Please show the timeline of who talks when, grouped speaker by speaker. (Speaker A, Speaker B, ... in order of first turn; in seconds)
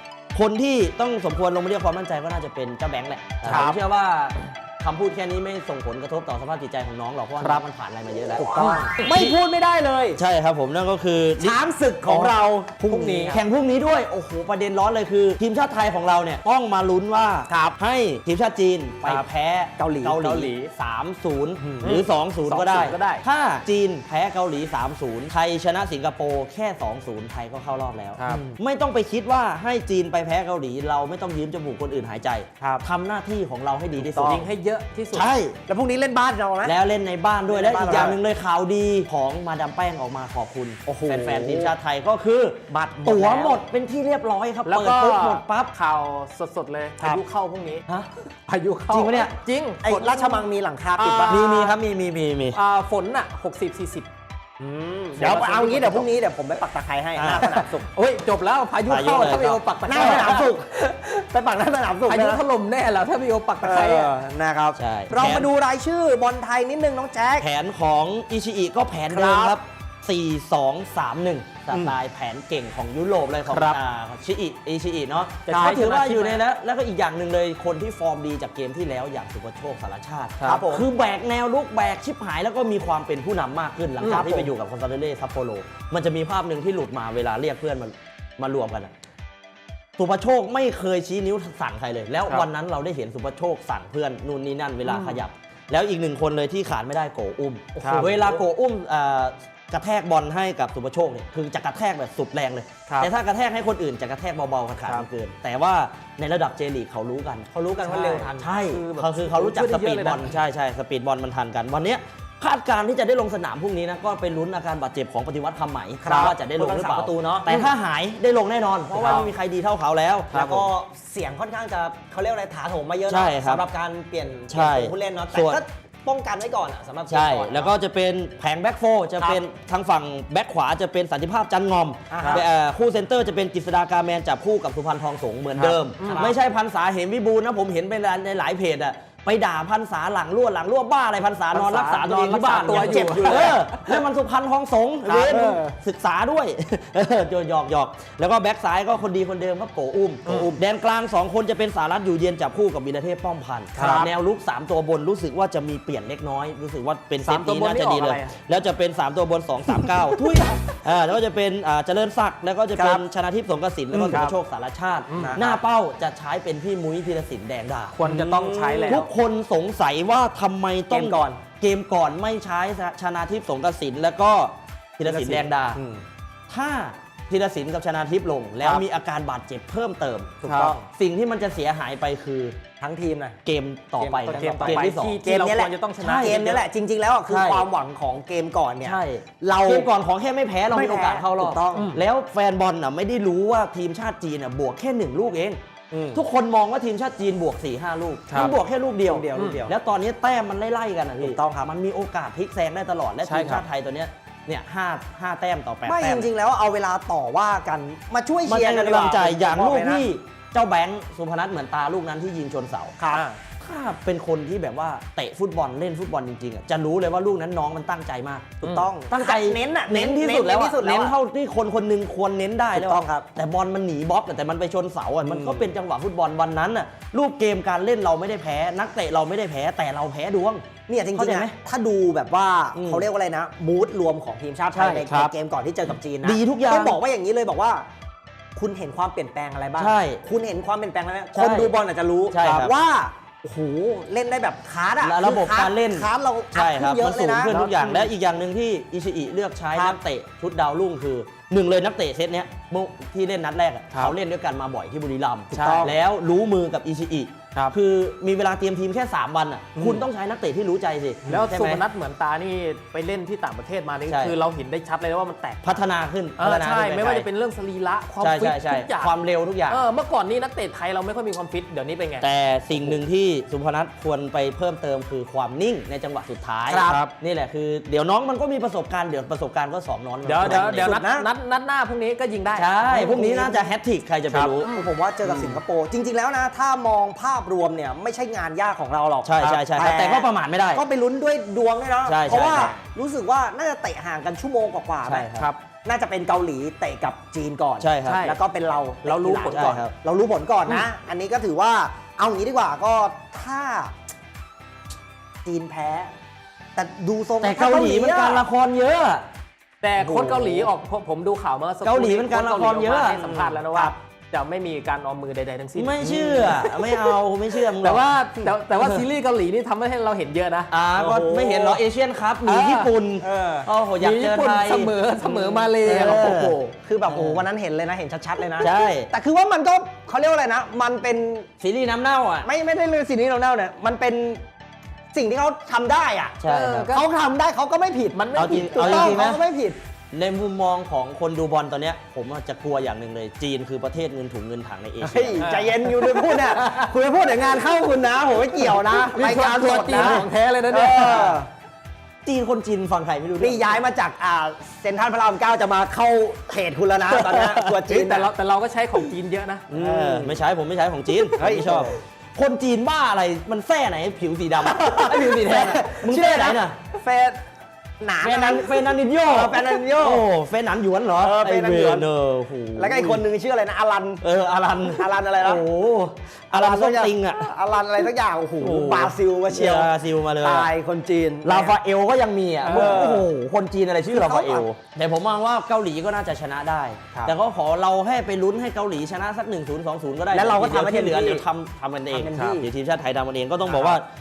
Speaker A: 0.3-9.3, 10.2-12.3, 13.3-34.5, 35.1-35.6, 36.6-45.7, 48.9-49.3, 51.3-52.6, 55.2-55.8, 57.2-57.5, 58.9-60.2, 64.8-65.5, 67.4-88.9, 90.0-107.5, 108.4-120.7, 123.1-123.6, 124.5-125.6, 127.1-168.0, 168.9-175.8, 176.5-182.6, 183.4-185.2, 186.0-186.6, 187.3-187.7, 188.8-195.6, 196.1-206.3, 208.5-213.0, 213.6-230.6, 231.2-231.5, 232.8-233.1, 234.7-235.3, 236.2-237.0, 239.8-240.2, 241.3-241.7, 242.3-242.7, 245.0-261.8, 264.1-264.4, 265.6-267.3, 268.2-269.8, 272.2-280.9, 282.6-284.7, 285.2-285.6, 289.2-290.8, 292.1-292.8, 295.1-295.5, 297.8-298.2, 299.1-299.9, 307.4-309.3, 310.0-310.5, 311.8-313.9, 315.8-318.1, 320.7-324.9, 325.8-326.6, 327.1-327.4, 328.6-329.1, 331.6-332.5, 336.4-336.9, 338.4-339.4, 340.1-345.5, 350.0-350.2, 351.0-351.4, 352.2-353.8, 359.7-366.8, 368.2-373.2, 374.2-377.5, 378.6-380.7, 381.4-394.1
Speaker B: 3.4-3.8, 8.6-9.1, 12.9-13.4, 20.2-20.7, 21.6-23.2, 28.2-28.5, 34.1-35.3, 44.6-47.8, 48.5-51.8, 52.5-54.1, 54.8-56.0, 57.4-61.1, 62.1-64.1, 73.5-73.8, 75.5-76.4, 84.0-84.3, 94.8-95.2, 97.8-98.1, 107.8-110.4, 119.0-119.3, 136.0-136.3, 141.5-144.0, 145.1-145.5, 150.3-150.5, 153.8-154.1, 157.2-158.3, 164.0-164.4, 165.1-165.4, 167.9-169.1, 180.4-180.8, 184.2-186.6, 191.7-192.0, 198.3-198.6, 199.3-199.7, 203.2-203.6, 247.5-248.1, 255.5-255.9, 259.8-260.1, 261.3-265.8, 266.4-269.1, 269.7-273.0, 276.9-277.1, 280.2-282.8, 284.3-284.6, 298.0-298.4, 309.8-320.7, 322.4-322.9, 324.0-326.6, 336.4-337.0, 338.1-339.2, 345.4-351.4, 357.6-359.7, 382.6-383.1
Speaker C: 8.4-10.2, 11.4-13.4, 17.5-17.8, 19.8-20.2, 34.0-34.5, 35.7-36.8, 37.5-38.2, 40.9-41.7, 42.7-43.6, 49.8-51.6, 54.6-57.9, 59.9-62.4, 63.6-67.5, 69.1-69.6, 80.4-80.9, 84.0-84.5, 97.8-98.4, 107.5-108.5, 116.0-117.7, 120.3-127.7, 132.1-132.5, 135.6-136.4, 142.6-143.6, 145.2-145.7, 153.8-154.1, 162.8-163.0, 163.9-164.2, 165.2-165.6, 168.0-169.1, 170.9-171.4, 175.0-176.0, 180.4-180.9, 182.8-183.4, 184.0-189.9, 190.7-192.0, 199.0-199.7, 201.2-201.7, 205.9-210.1, 213.0-213.4, 218.6-221.2, 222.7-223.3, 225.2-225.7, 230.9-237.9, 238.6-247.6, 249.7-250.0, 255.6-255.9, 276.7-277.0, 280.4-281.3, 282.9-283.7, 284.6-295.3, 295.9-304.0, 305.4-306.1, 306.8-308.5, 310.0-310.7, 313.3-313.9, 321.0-321.8, 323.2-323.7, 325.2-331.5, 332.4-334.4, 335.1-339.8, 345.0-351.5, 353.4-358.3, 359.7-360.4, 361.4-362.0, 364.6-367.4, 368.0-370.3, 371.2-372.1, 372.8-374.2, 374.9-375.6, 376.5-381.8, 382.7-383.3, 384.1-384.7, 390.3-391.4, 392.1-392.7